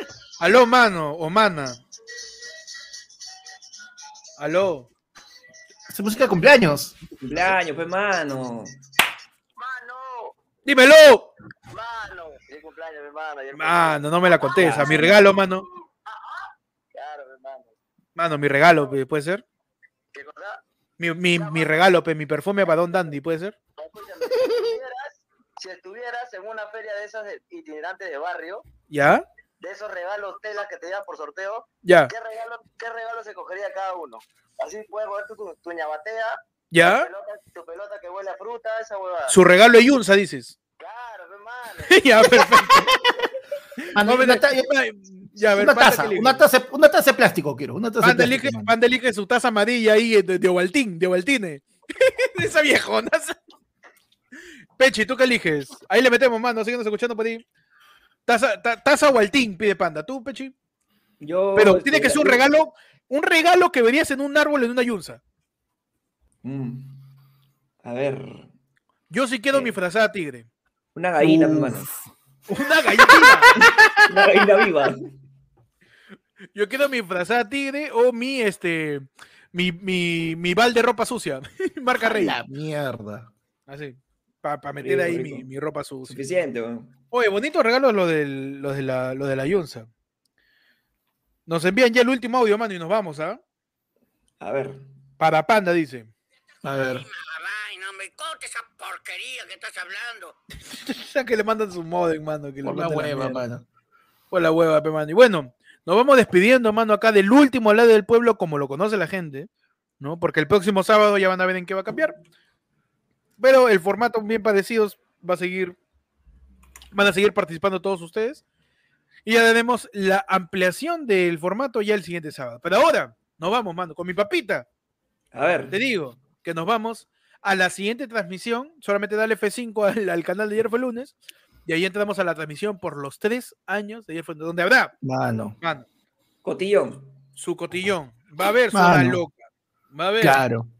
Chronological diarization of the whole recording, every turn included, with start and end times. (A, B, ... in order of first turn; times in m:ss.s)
0:00.4-0:01.8 A
0:04.4-0:04.9 A
0:05.9-0:07.0 B
0:07.2-0:08.8 C
0:09.6-0:10.4 D
0:10.6-0:11.3 A
0:11.7-0:15.1 D
0:13.5-0:15.6 A
0:14.6-0:15.0 C
0:16.1-0:17.7 D
0:18.2-0:19.4 A
0:20.1-0:20.6 D
0:21.0-0:23.6 A
0:21.3-0:21.8 D
0:23.8-0:28.6 D
0:28.9-0:29.2 A
0:29.6-0:39.3 D
0:31.8-0:32.1 A
0:36.7-0:37.1 A
0:39.3-0:40.5 A
0:40.8-0:42.0 D
0:41.8-0:42.9 A
0:43.8-0:46.4 A
0:43.9-0:44.7 B
0:45.4-0:48.7 B
0:48.0-0:53.4 A
0:54.8-0:57.4 A
0:58.3-1:00.5 A
1:01.2-1:02.4 C
1:01.6-1:05.2 A
1:06.4-1:07.0 C
1:07.8-1:08.5 C
1:09.1-1:10.5 A
1:10.9-1:11.9 C
1:11.2-1:11.9 B
1:12.5-1:13.6 A
1:13.0-1:14.4 B
1:13.6-1:15.0 C
1:16.5-1:22.4 A
1:22.0-1:23.3 B
1:23.7-1:26.2 A
1:24.8-1:25.4 C
1:26.1-1:26.9 C
1:27.1-1:29.9 A
1:31.5-1:33.4 A
1:34.4-1:34.8 C
1:35.2-1:36.1 A
1:36.6-1:37.1 B
1:36.8-1:40.3 E
1:40.7-1:43.4 A
1:42.6-1:43.6 B
1:44.3-1:49.5 A
1:50.0-1:52.2 A
1:53.4-1:55.8 A
1:56.9-1:58.4 A
1:59.2-2:04.6 A
2:05.3-2:05.7 C
2:05.7-2:11.1 A
2:11.6-2:14.9 A
2:15.0-2:15.5 B
2:16.4-2:17.1 C
2:17.4-2:19.4 A
2:18.7-2:19.2 B
2:19.9-2:20.4 A
2:20.2-2:20.7 B